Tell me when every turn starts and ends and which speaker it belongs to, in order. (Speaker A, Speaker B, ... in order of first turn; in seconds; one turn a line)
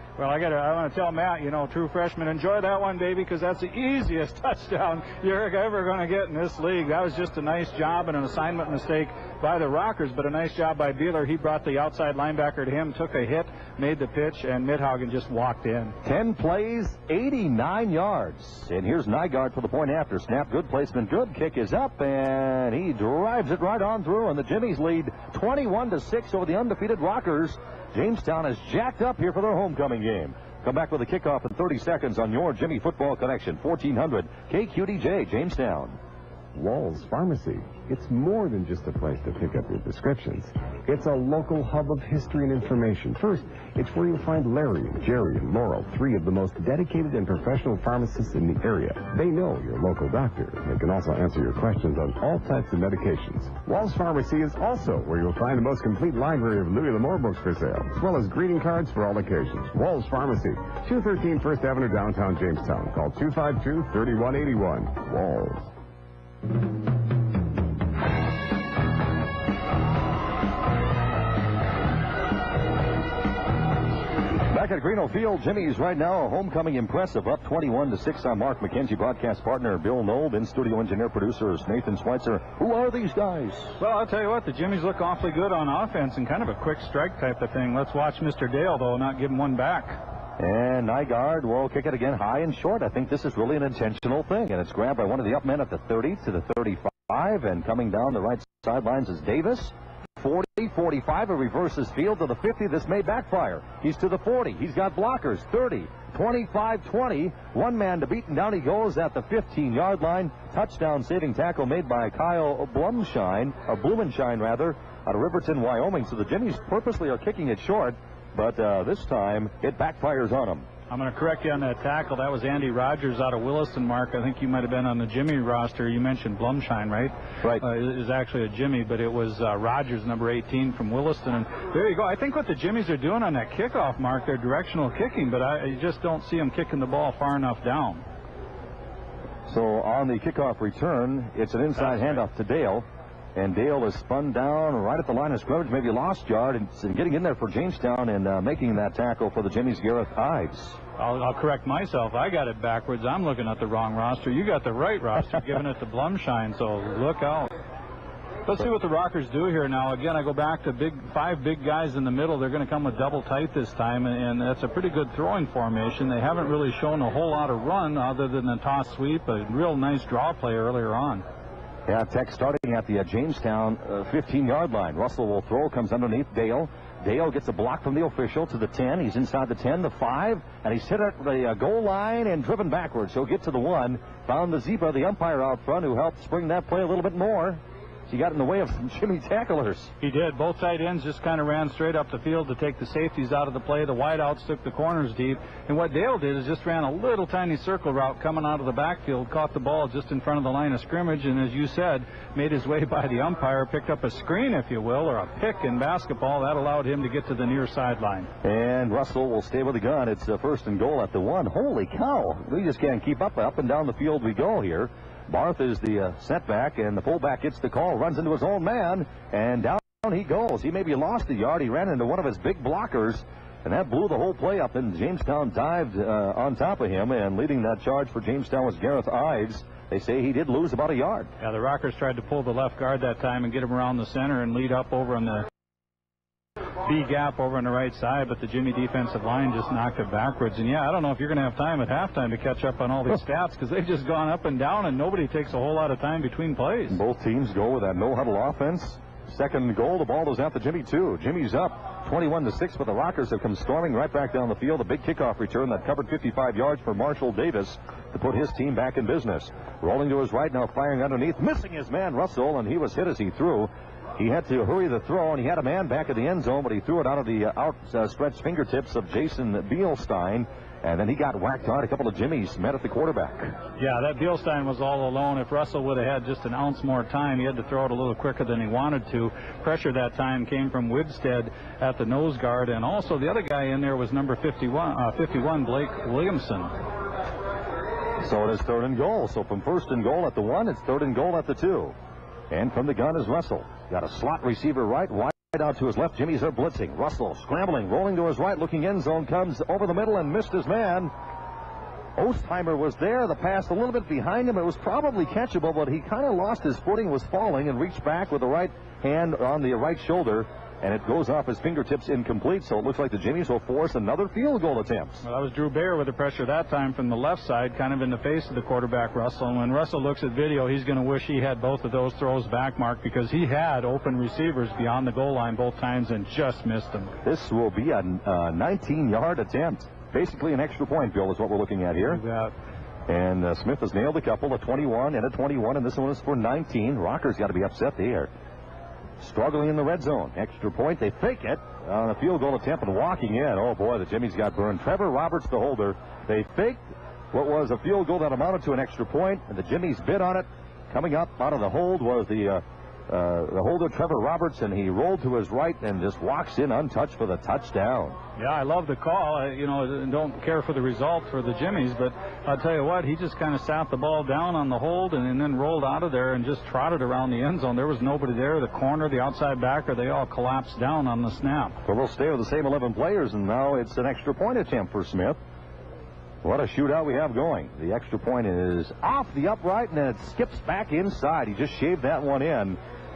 Speaker A: 0.2-16.0
Speaker B: 16.0-36.0
Speaker C: 36.5-65.7
Speaker B: 74.5-83.8
Speaker A: 83.8-90.0
Speaker B: 90.4-120.7
Speaker A: 120.9-138.0
Speaker B: 139.5-142.8
Speaker A: 141.8-142.2
Speaker B: 143.4-150.8
Speaker A: 151.0-157.5
Speaker A: 158.5-171.2
Speaker B: 171.9-189.9
Speaker A: 190.0-208.3
Speaker B: 208.4-231.3
Speaker A: 231.4-235.5
Speaker A: 236.8-247.0
Speaker B: 246.9-273.6
Speaker A: 273.8-286.7
Speaker B: 288.2-291.9
Speaker B: 292.5-301.1
Speaker B: 302.2-315.2
Speaker A: 315.2-327.1
Speaker B: 327.2-332.2
Speaker A: 332.0-332.5
Speaker B: 333.1-338.3
Speaker B: 339.2-358.2
Speaker A: 358.4-371.8
Speaker B: 371.9-375.4
Speaker B: 376.4-382.8